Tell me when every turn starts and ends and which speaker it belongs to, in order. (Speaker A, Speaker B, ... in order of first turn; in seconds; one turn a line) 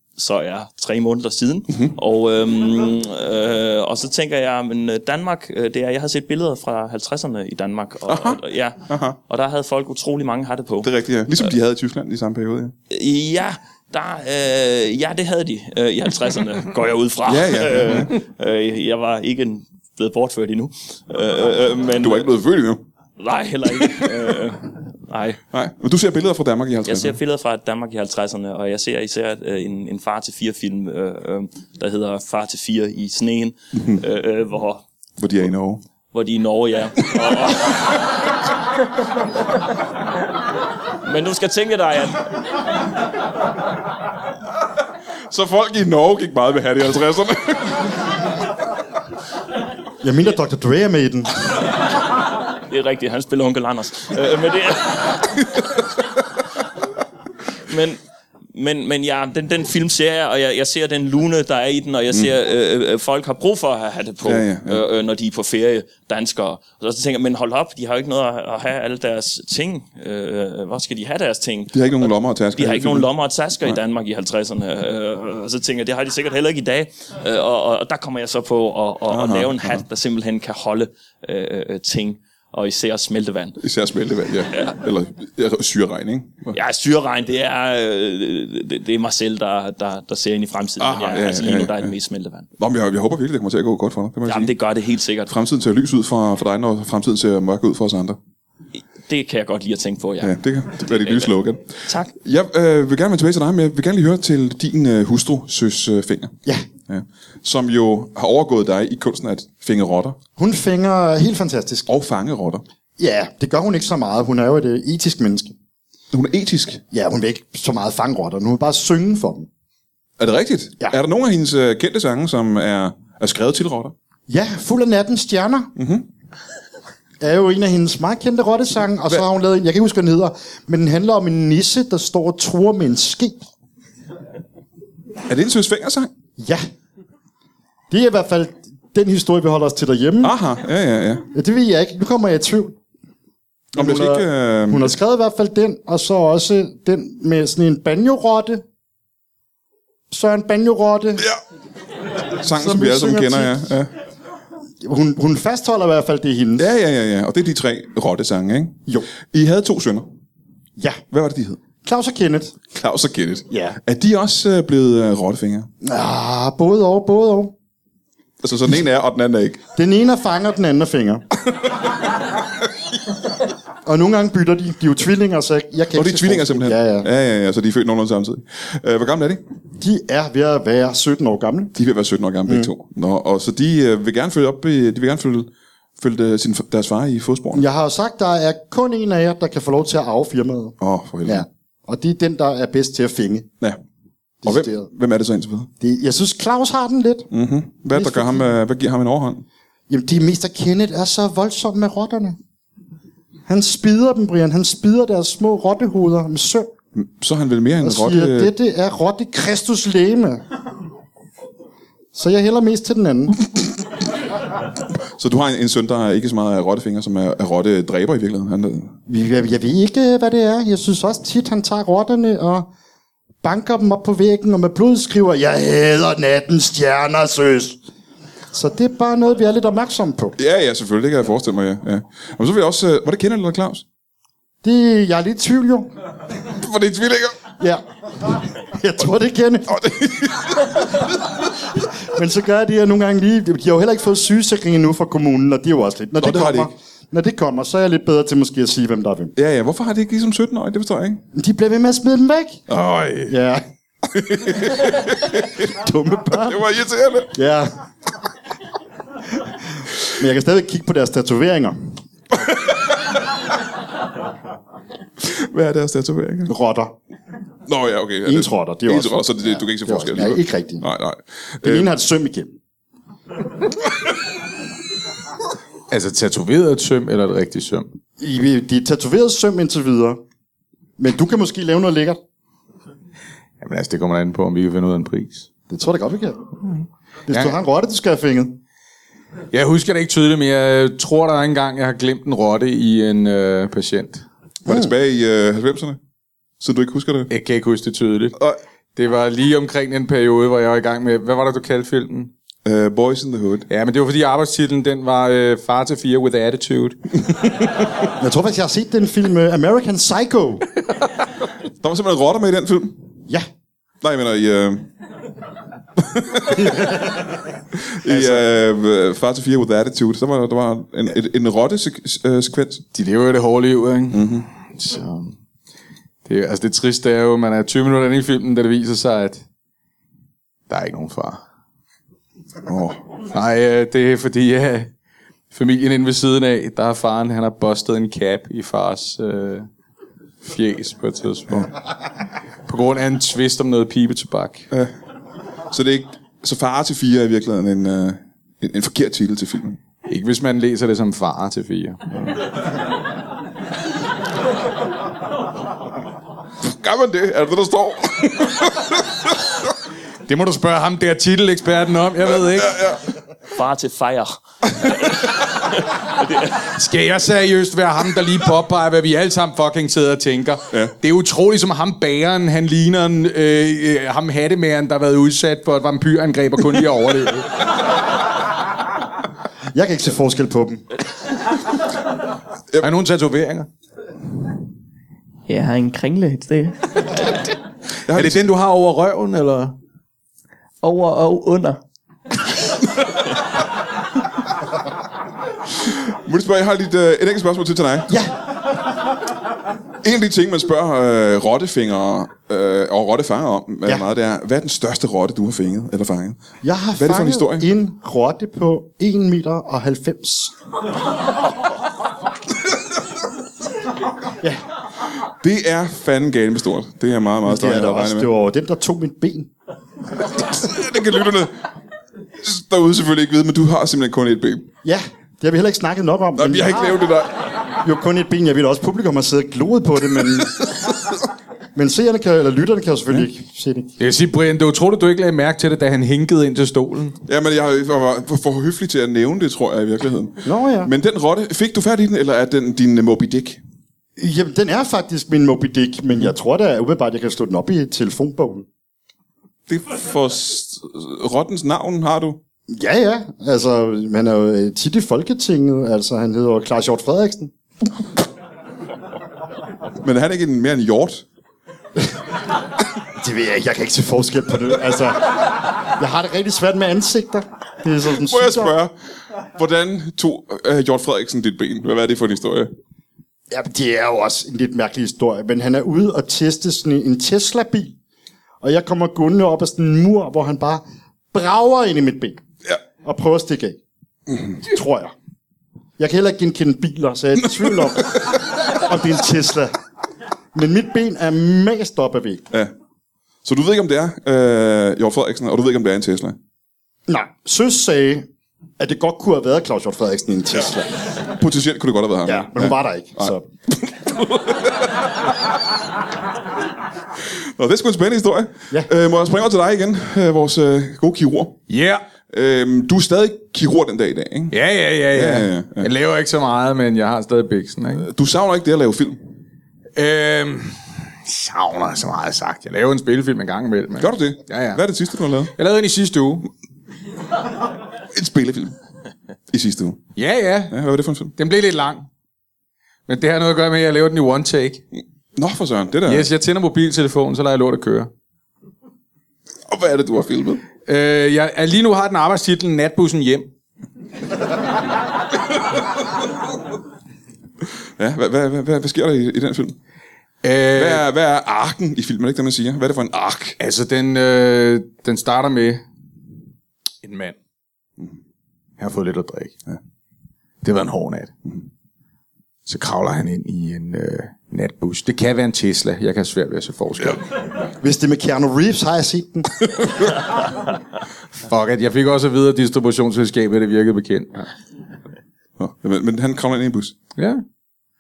Speaker A: 0.2-11.5
Speaker B: 8.1-9.2
Speaker B: 10.8-12.7
Speaker A: 12.9-22.3
Speaker B: 17.2-18.1
Speaker B: 22.0-22.8
Speaker A: 23.2-25.4
Speaker B: 23.8-24.1
Speaker B: 25.5-27.2
Speaker A: 26.9-34.8
Speaker B: 33.8-34.0
Speaker B: 35.2-35.8
Speaker A: 36.1-38.1
Speaker A: 40.9-42.4
Speaker B: 45.3-48.1
Speaker C: 50.0-51.4
Speaker A: 52.7-55.7
Speaker A: 57.6-58.0
Speaker A: 58.5-83.6
Speaker B: 64.2-64.8
Speaker B: 71.7-73.1
Speaker B: 79.1-79.8
Speaker B: 83.6-86.6
Speaker A: 86.5-92.5
Speaker B: 90.8-91.9
Speaker B: 92.6-94.5
Speaker A: 94.3-95.3
Speaker B: 95.3-98.2
Speaker A: 98.8-101.3
Speaker B: 100.2-106.4
Speaker A: 101.8-102.1
Speaker B: 106.9-110.2
Speaker C: 110.4-111.9
Speaker B: 111.9-112.6
Speaker C: 113.0-115.5
Speaker B: 116.1-116.8
Speaker C: 116.9-119.5
Speaker B: 120.2-123.9
Speaker C: 124.3-125.7
Speaker B: 125.8-126.1
Speaker C: 127.2-133.4
Speaker B: 135.3-136.1
Speaker C: 136.4-136.7
Speaker C: 137.9-140.3
Speaker B: 140.2-141.3
Speaker C: 141.3-142.8
Speaker C: 143.7-148.6
Speaker B: 143.8-144.9
Speaker C: 150.1-151.3
Speaker B: 152.4-153.9
Speaker C: 152.6-153.7
Speaker C: 154.8-156.7
Speaker B: 156.6-160.1
Speaker B: 161.1-161.6
Speaker C: 161.8-162.6
Speaker B: 162.7-165.7
Speaker C: 163.5-163.8
Speaker C: 165.8-167.5
Speaker B: 168.4-169.6
Speaker C: 169.8-171.2
Speaker C: 173.9-177.1
Speaker B: 175.9-179.4
Speaker C: 179.8-181.7
Speaker B: 181.8-187.7
Speaker C: 187.5-193.5
Speaker B: 190.8-191.5
Speaker C: 194.4-194.9
Speaker B: 194.4-195.7
Speaker C: 195.8-197.3
Speaker B: 197.3-199.4
Speaker C: 197.9-198.5
Speaker C: 199.9-202.4
Speaker C: 203.5-206.7
Speaker B: 206.9-208.5
Speaker C: 207.8-210.4
Speaker C: 212.1-213.5
Speaker B: 215.2-219.0
Speaker C: 219.1-222.7
Speaker C: 223.4-227.8
Speaker C: 228.5-230.4
Speaker B: 230.4-233.8
Speaker C: 234.6-235.9
Speaker B: 236.5-237.4
Speaker C: 237.6-239.8
Speaker B: 239.7-241.0
Speaker C: 242.0-249.3
Speaker B: 246.2-246.7
Speaker B: 249.4-251.2
Speaker C: 251.3-252.6
Speaker B: 252.7-253.3
Speaker C: 253.3-253.6
Speaker B: 254.1-255.7
Speaker C: 255.7-256.6
Speaker B: 256.3-257.4
Speaker C: 257.3-257.8
Speaker C: 260.1-262.0
Speaker B: 262.4-262.9
Speaker B: 265.2-266.5
Speaker C: 266.5-266.9
Speaker B: 267.7-271.9
Speaker C: 268.2-270.9
Speaker C: 271.6-272.5
Speaker D: 275.9-277.9
Speaker C: 278.2-280.2
Speaker C: 281.0-282.2
Speaker D: 283.6-285.5
Speaker C: 285.7-286.4
Speaker C: 287.3-288.6
Speaker D: 287.3-287.6
Speaker D: 289.5-294.2
Speaker B: 294.6-296.0
Speaker B: 296.6-297.3
Speaker D: 297.3-298.4
Speaker D: 298.9-302.3
Speaker B: 302.6-303.7
Speaker D: 303.7-307.0
Speaker C: 308.2-310.6
Speaker B: 311.8-313.0
Speaker B: 314.0-314.9
Speaker B: 316.0-316.9
Speaker C: 316.6-317.0
Speaker B: 317.9-322.9
Speaker C: 318.1-318.4
Speaker D: 322.9-325.4
Speaker B: 324.1-324.5
Speaker D: 326.2-329.4
Speaker D: 330.7-331.4
Speaker B: 332.7-333.0
Speaker D: 333.3-334.9
Speaker D: 335.5-339.7
Speaker D: 340.4-341.7
Speaker D: 342.7-344.7
Speaker B: 345.7-349.8
Speaker D: 350.1-352.1
Speaker B: 356.6-359.4
Speaker D: 360.3-362.8
Speaker B: 362.5-363.0
Speaker A: 363.5-366.6
Speaker D: 366.6-377.6
Speaker C: 379.7-380.9
Speaker D: 382.8-383.7
Speaker E: 385.5-387.5
Speaker B: 388.1-388.4
Speaker D: 388.1-389.8
Speaker E: 390.8-391.8
Speaker B: 395.7-398.2
Speaker C: 398.1-398.4
Speaker B: 400.0-407.7
Speaker C: 406.6-410.5
Speaker B: 415.3-418.3
Speaker C: 417.4-419.5
Speaker B: 420.2-421.6
Speaker B: 422.4-424.7
Speaker C: 424.8-427.1
Speaker B: 426.4-427.5
Speaker C: 427.8-430.6
Speaker C: 431.8-433.9
Speaker D: 434.0-437.2
Speaker B: 437.3-443.6
Speaker C: 440.4-440.9
Speaker C: 444.2-448.7
Speaker B: 449.7-452.4
Speaker C: 452.7-457.5
Speaker B: 460.0-461.2
Speaker C: 463.2-468.7
Speaker B: 468.1-472.7
Speaker C: 473.5-477.9
Speaker C: 478.6-482.4
Speaker C: 483.0-483.8
Speaker C: 484.6-485.1
Speaker C: 486.0-489.7
Speaker C: 490.5-492.4
Speaker B: 493.4-496.4
Speaker C: 497.1-498.3
Speaker C: 498.8-500.9
Speaker B: 501.2-504.9
Speaker C: 502.2-503.4
Speaker B: 507.4-511.6
Speaker D: 511.7-512.0
Speaker B: 512.3-514.5
Speaker D: 514.5-518.1
Speaker B: 515.1-515.9
Speaker B: 518.0-519.2
Speaker D: 520.0-524.8
Speaker B: 524.0-525.5
Speaker D: 525.5-526.5
Speaker B: 528.1-528.8
Speaker B: 529.5-530.1
Speaker D: 530.2-530.8
Speaker B: 530.7-531.3
Speaker D: 531.4-532.1
Speaker D: 533.1-534.8
Speaker B: 535.4-536.3
Speaker D: 536.1-538.1
Speaker B: 539.7-540.6
Speaker D: 540.9-543.5
Speaker B: 548.0-549.8
Speaker D: 550.4-551.0
Speaker B: 550.8-553.6
Speaker D: 553.6-555.8
Speaker D: 557.0-557.4
Speaker D: 558.8-559.6
Speaker D: 560.6-561.3
Speaker D: 562.7-567.3
Speaker C: 567.8-569.5
Speaker D: 571.4-574.5
Speaker B: 575.6-577.0
Speaker D: 577.2-577.4